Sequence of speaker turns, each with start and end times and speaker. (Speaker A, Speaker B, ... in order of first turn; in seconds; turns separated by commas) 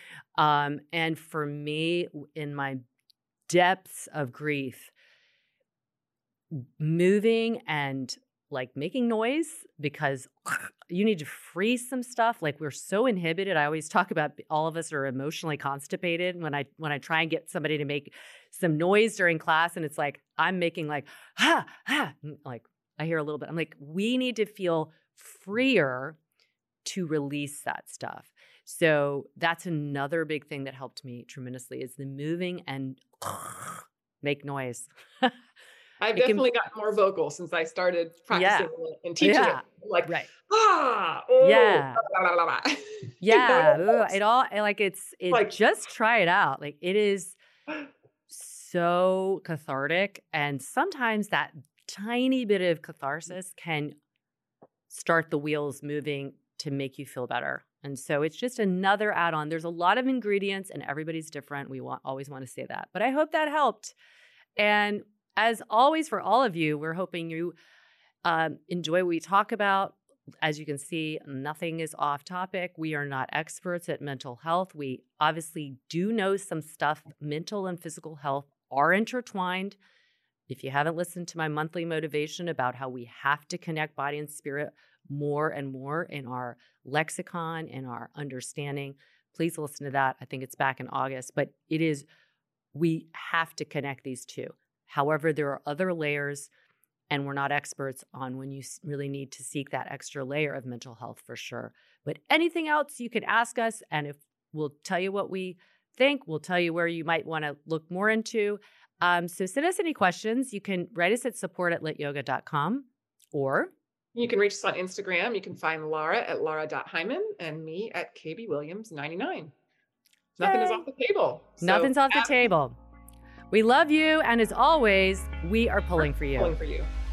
Speaker A: 0.4-2.8, Speaker A: 3.5-4.9, Speaker A: 6.5-26.2, Speaker A: 26.8-35.3, Speaker B: 36.0-44.1, Speaker A: 36.1-36.4, Speaker A: 38.3-40.3, Speaker A: 41.4-42.0, Speaker A: 43.2-47.4, Speaker B: 45.3-45.6, Speaker A: 48.3-54.0, Speaker A: 54.9-63.9, Speaker A: 64.6-67.5, Speaker A: 68.2-79.8, Speaker A: 80.5-92.0, Speaker A: 92.7-96.5, Speaker A: 97.1-113.7, Speaker B: 114.1-119.5, Speaker B: 120.4-122.5, Speaker A: 120.4-120.8, Speaker A: 121.6-122.8, Speaker A: 123.5-126.5, Speaker B: 126.0-126.9